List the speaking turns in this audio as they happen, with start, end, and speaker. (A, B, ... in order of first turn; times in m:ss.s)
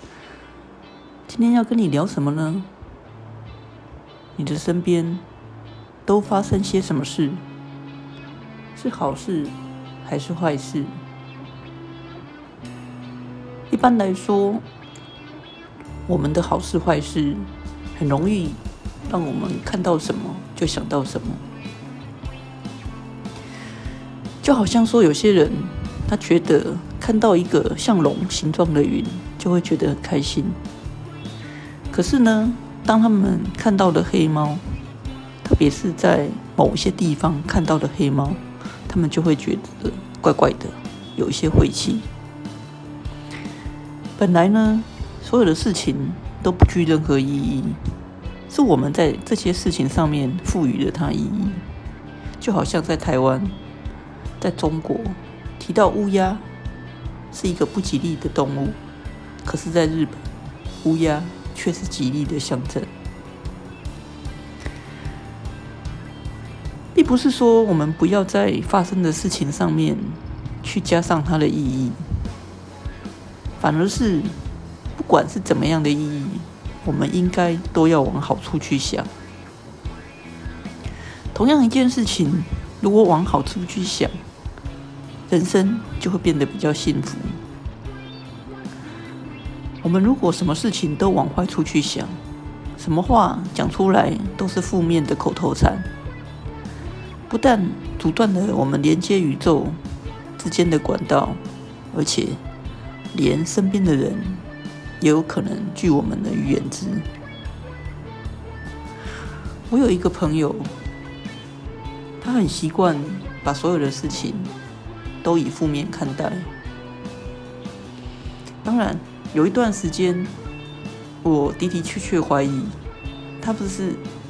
0:01.3-0:02.7 A
0:04.4-0:05.2 A
0:06.0-0:07.4 A
0:08.7-0:11.0 A
0:13.7-0:14.6 A
0:16.0-0:21.4 A
0:24.4-0:30.6 A
0:31.9-0:34.8 A
0:35.4-0:42.1 A
0:44.2-0:47.8 A
0:48.5-0:51.6 A
0:52.4-0:53.6 A
0:54.4-0:56.5 A
0:57.3-0:58.8 A
0:59.4-1:00.3 A
1:00.8-1:02.9 A
1:06.9-1:12.3 A
1:13.6-1:14.4 A
1:14.9-1:19.1 A
1:21.3-1:24.2 A
1:25.3-1:27.4 A
1:29.8-1:32.2 A
1:32.8-1:35.9 A
1:37.3-1:39.8 A
1:40.4-1:42.4 A
1:43.1-1:44.4 A
1:45.0-1:47.1 A
1:49.7-1:50.7 A
1:52.2-1:54.5 A
1:55.2-1:56.5 A
1:58.6-2:00.3 A
2:01.2-2:02.8 A
2:03.4-2:04.0 A